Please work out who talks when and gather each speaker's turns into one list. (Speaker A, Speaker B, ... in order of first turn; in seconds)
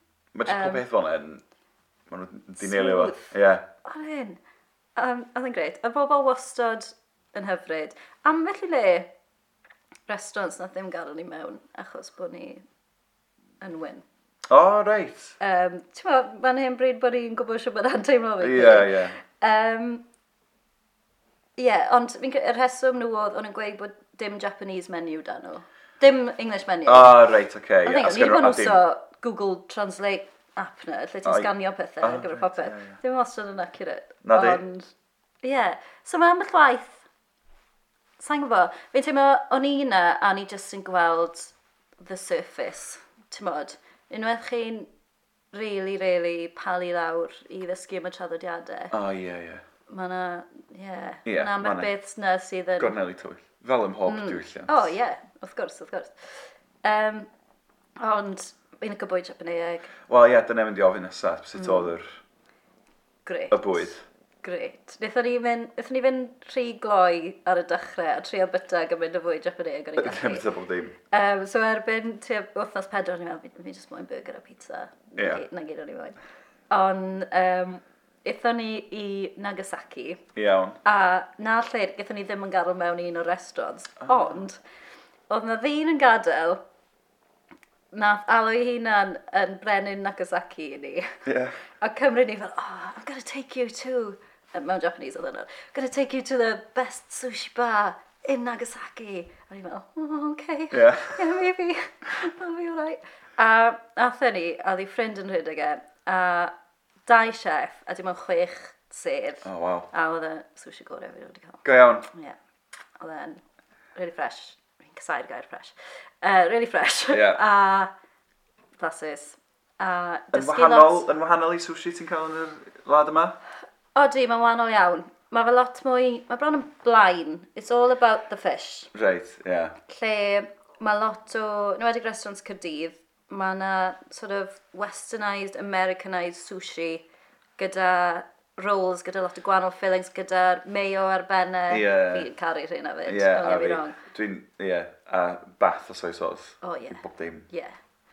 Speaker A: 0.3-1.4, 2.1-3.7, 14.5-15.4, 18.4-19.2, 26.9-28.8, 32.0-33.0, 34.2-34.6, 48.9-49.6, 51.3-51.9, 52.8-54.9, 60.1-62.2, 63.5-64.0, 70.0-71.0, 75.2-75.4, 80.3-80.8, 84.0-84.4, 91.3-91.6, 100.7-101.3, 109.4-109.9, 111.6-112.1, 117.1-117.4, 120.3-123.4, 128.9-129.8, 141.7-142.3, 143.1-147.5
Speaker B: 0.5-0.8, 2.6-4.4, 5.0-9.1, 10.1-12.6, 13.6-14.1, 15.4-20.0, 21.6-27.2, 27.8-34.9, 35.4-37.1, 38.2-44.9, 45.5-48.9, 49.9-53.0, 54.1-57.3, 58.0-59.9, 61.6-61.9, 63.3-63.9, 64.4-70.5, 71.1-76.2, 76.7-80.2, 80.8-84.6, 85.3-86.6, 87.9-91.2, 91.8-106.5, 107.1-112.4, 113.0-113.4, 114.0-117.9, 118.8-121.1, 124.0-128.9, 129.8-137.1, 137.6-144.0, 146.6-147.8